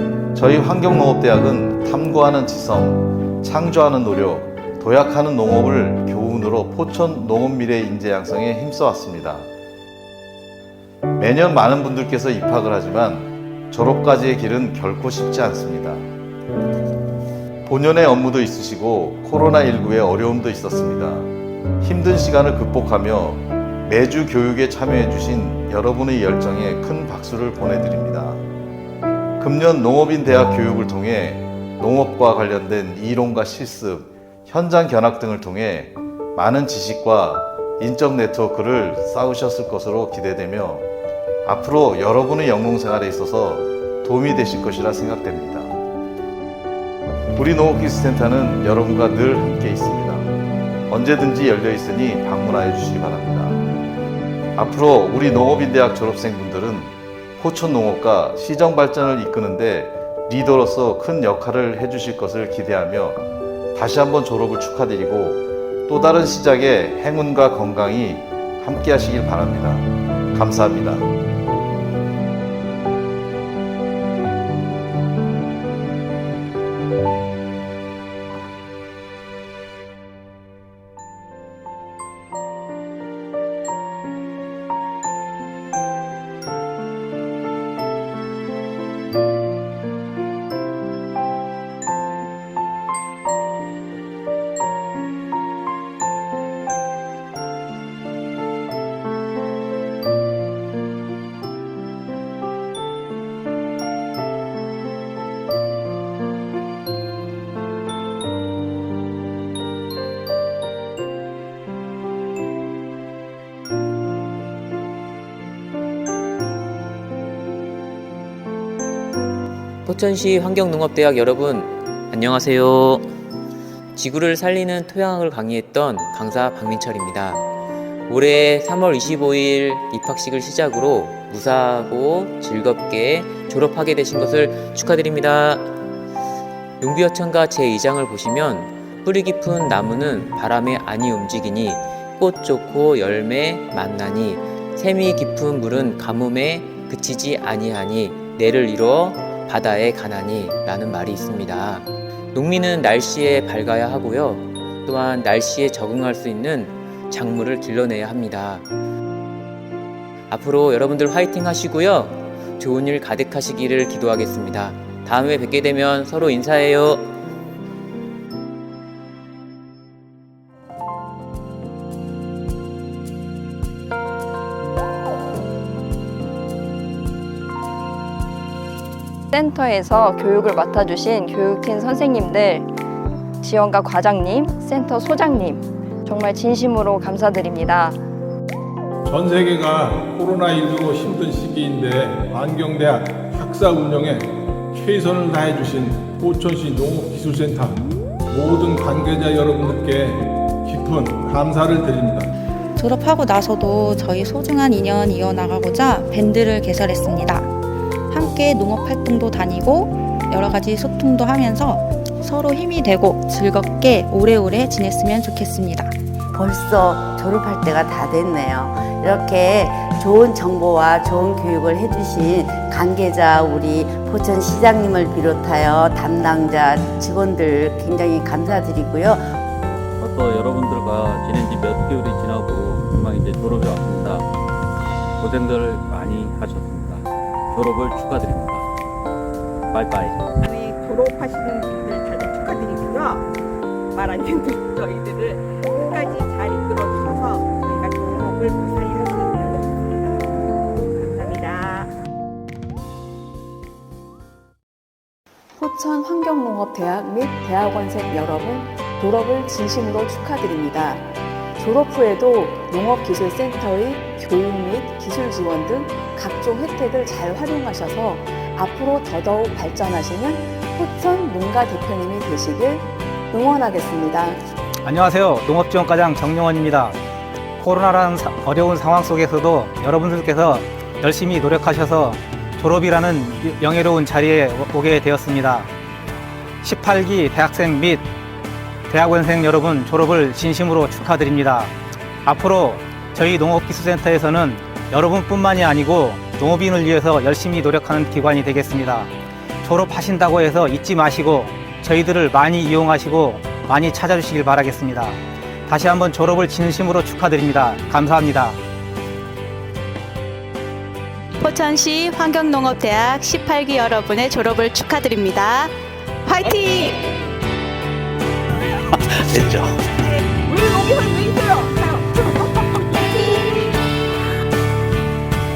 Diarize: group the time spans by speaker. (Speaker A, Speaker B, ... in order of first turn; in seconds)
Speaker A: 0.3-9.5, 11.2-16.1, 17.7-21.3, 21.8-28.4, 29.4-40.9, 41.5-45.8, 47.4-50.3, 50.9-53.6, 54.6-63.2, 63.8-71.1
Speaker B: 119.9-123.1, 124.0-127.4, 128.1-135.7, 136.8-158.7, 160.3-167.1
Speaker C: 179.3-182.7, 183.4-188.0
Speaker D: 189.1-202.3
Speaker E: 202.8-207.5, 208.1-215.9
Speaker F: 216.3-229.3
Speaker G: 230.0-234.3, 235.2-238.7, 239.7-240.3
Speaker H: 240.4-243.3, 243.9-250.0, 250.9-251.9, 320.5-323.7
Speaker I: 255.6-274.4
Speaker J: 274.8-277.0, 277.6-285.7, 286.6-288.1, 288.9-291.7, 292.2-299.1, 299.6-308.6
Speaker K: 311.4-315.7, 316.3-317.0